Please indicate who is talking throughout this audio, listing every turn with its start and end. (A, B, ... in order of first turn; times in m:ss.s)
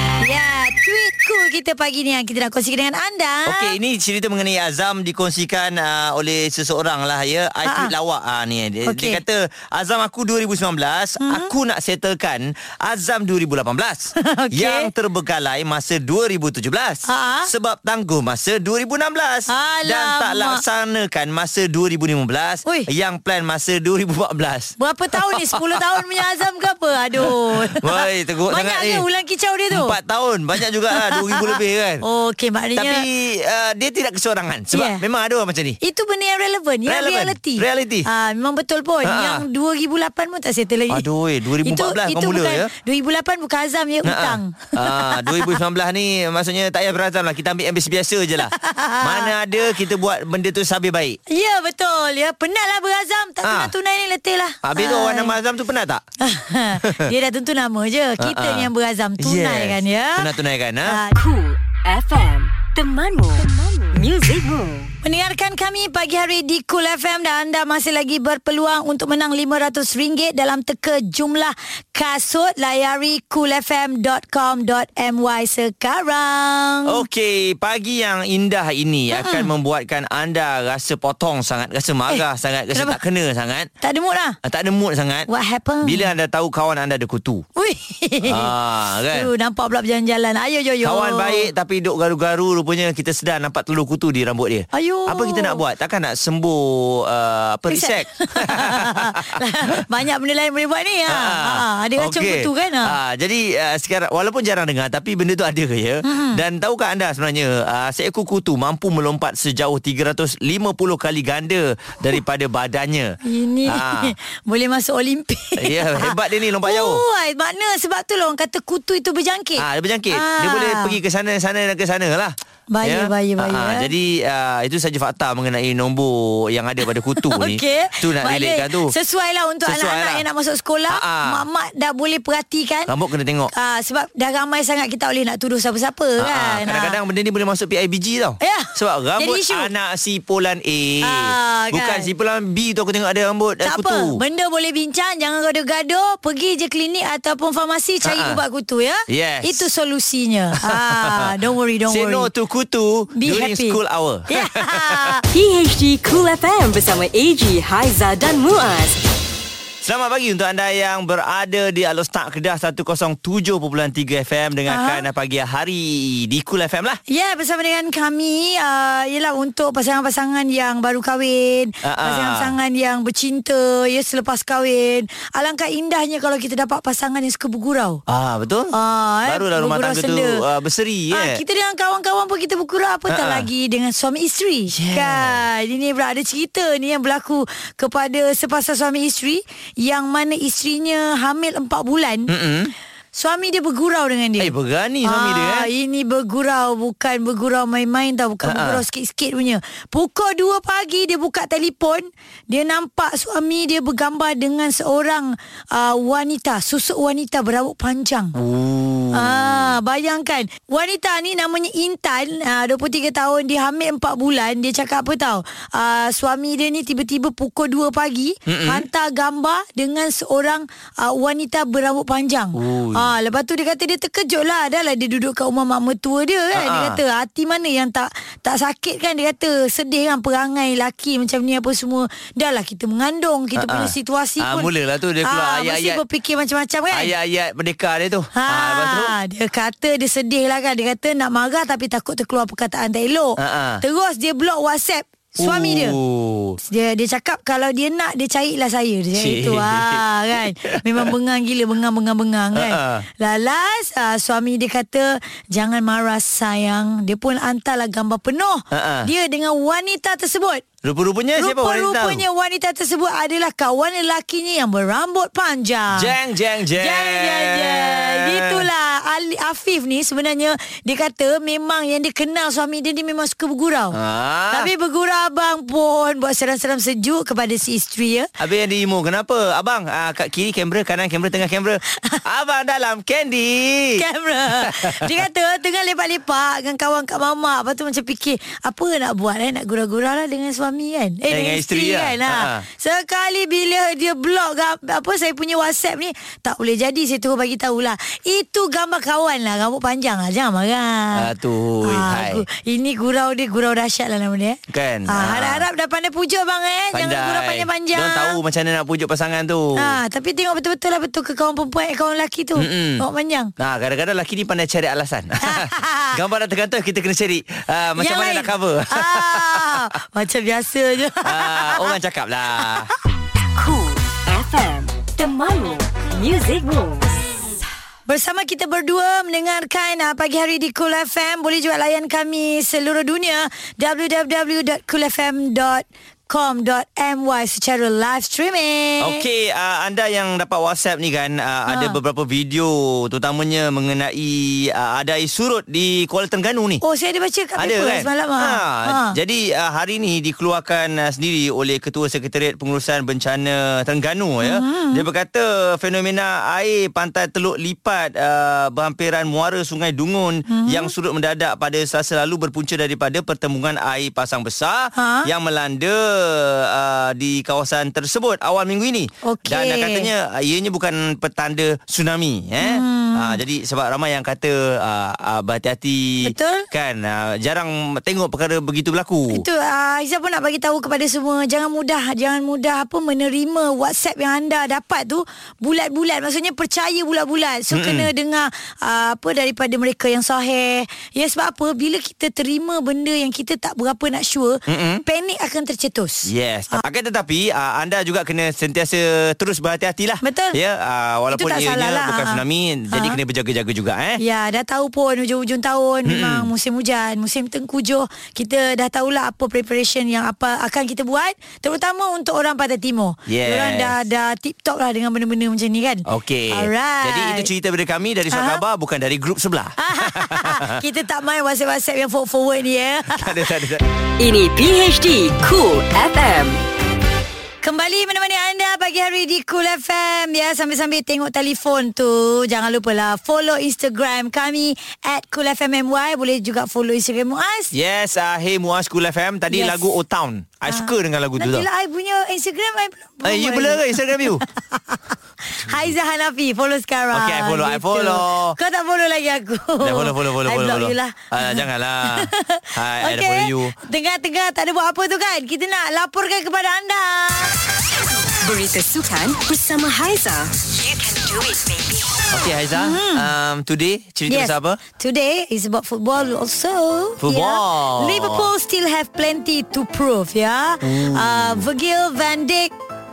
0:00.2-0:03.7 A
0:03.4-0:25.8 B
0:07.6-0:07.9 A
0:08.8-0:09.2 A
0:11.2-0:11.5 A
0:14.2-0:14.9 A
0:17.0-0:17.5 A
0:19.5-0:20.6 A
0:24.8-0:30.0 A
0:27.2-0:29.0 B
0:29.7-0:32.0 B
0:30.9-0:33.0 A
0:32.8-0:35.8 B
0:34.7-0:35.0 A
0:35.8-0:41.0 A
0:36.9-0:38.1 B
0:39.0-0:39.4 B
0:40.9-0:42.7 B
0:41.6-0:45.5 A
0:44.0-0:51.2 B
0:48.5-0:49.3 A
0:51.3-0:55.3 A
0:53.4-0:53.7 B
0:54.6-0:56.0 B
0:56.2-1:00.3 A
0:56.8-0:57.1 B
0:58.2-1:01.0 B
1:00.9-1:01.2 A
1:01.1-1:04.9 C
1:05.0-1:17.0 A
1:16.8-1:23.7 B
1:19.1-1:19.5 A
1:23.8-1:24.4 A
1:24.4-1:25.3 B
1:25.3-1:26.1 A
1:25.8-1:27.4 B
1:27.6-1:28.5 A
1:28.2-1:29.3 B
1:29.1-1:31.5 A
1:30.8-1:39.2 B
1:34.7-1:35.6 A
1:37.7-1:42.9 A
1:41.1-1:54.1 B
1:46.0-1:46.4 A
1:53.2-1:56.1 A
1:55.6-1:57.0 B
1:56.6-2:00.9 A
1:59.6-2:08.9 B
2:02.7-2:03.9 A
2:07.2-2:12.9 A
2:09.6-2:10.2 B
2:10.9-2:11.4 B
2:12.9-2:13.5 B
2:13.5-2:17.0 A
2:16.2-2:24.2 B
2:18.4-2:19.7 A
2:21.0-2:22.1 A
2:23.6-2:32.3 A
2:28.0-2:28.4 B
2:29.1-2:29.7 B
2:30.6-2:31.3 B
2:31.9-2:35.1 B
2:33.1-2:33.8 A
2:34.3-2:35.2 A
2:35.3-2:39.0 C
2:39.8-2:47.0 B
2:44.7-2:45.1 A
2:47.1-2:58.0 A
2:51.8-2:52.5 B
2:58.1-2:58.7 B
2:58.7-3:00.4 A
2:59.2-3:01.4 B
3:01.1-3:12.3 A
3:03.1-3:03.5 B
3:04.7-3:05.4 B
3:12.3-3:12.7 B
3:13.1-3:28.4 A
3:14.4-3:15.7 B
3:18.4-3:18.8 B
3:28.3-3:29.7 B
3:29.1-3:54.7 A
3:38.4-3:38.8 B
3:42.5-3:43.1 B
3:46.5-3:47.0 B
3:53.6-3:56.0 B
3:55.2-3:57.1 A
3:56.9-3:59.2 B
3:58.3-4:06.0 A
4:03.4-4:03.8 B
4:05.4-4:06.6 B
4:06.6-4:20.6 A
4:09.2-4:10.0 B
4:10.6-4:11.1 B
4:12.5-4:13.0 B
4:18.7-4:19.1 B
4:20.8-4:22.2 B
4:21.4-4:26.1 A
4:25.9-4:28.7 B
4:26.8-4:34.0 A
4:33.9-4:34.7 B
4:34.5-4:38.3 A
4:38.4-4:44.0 B
4:44.0-5:01.3 A
4:44.6-4:45.1 B
4:51.3-4:52.6 B
5:01.1-5:02.4 B
5:01.8-5:08.4 A
5:04.7-5:05.6 B
5:06.9-5:10.0 B
5:09.8-5:13.5 A
5:12.6-5:13.0 B
5:13.6-5:19.8 B
5:15.4-5:16.1 A
5:18.0-5:22.0 A
5:21.2-5:22.9 B
5:23.6-5:27.2 C
5:28.1-5:39.2 A
5:39.0-5:46.8 B
5:41.7-5:42.0 A
5:46.8-5:49.1 A
5:47.6-6:19.4 B
5:54.4-5:55.0 A
6:00.5-6:00.9 A
6:05.0-6:05.3 A
6:09.2-6:10.1 A
6:12.6-6:13.4 A
6:16.2-6:16.6 A
6:19.3-6:36.8 A
6:27.7-6:28.1 B
6:34.7-6:35.0 B
6:36.3-6:44.2 B
6:40.2-6:40.6 A
6:41.3-6:42.4 A
6:42.9-6:43.2 A
6:44.2-6:57.5 A
6:46.1-6:46.5 B
6:53.3-6:53.9 B
6:56.0-7:00.8 B
6:58.3-6:58.6 A
6:59.8-7:03.5 A
7:03.1-7:03.8 B
7:04.2-7:06.6 C
7:07.6-7:17.7 A
7:17.7-7:21.7 B
7:19.5-7:19.9 A
7:20.7-7:37.6 A
7:23.2-7:24.4 B
7:27.1-7:28.6 B
7:29.8-7:33.7 B
7:38.4-7:42.2 C
7:42.3-7:44.8 B
7:42.7-7:43.3 A
7:44.3-7:52.7 A
7:47.2-7:48.5 B
7:50.8-7:51.6 B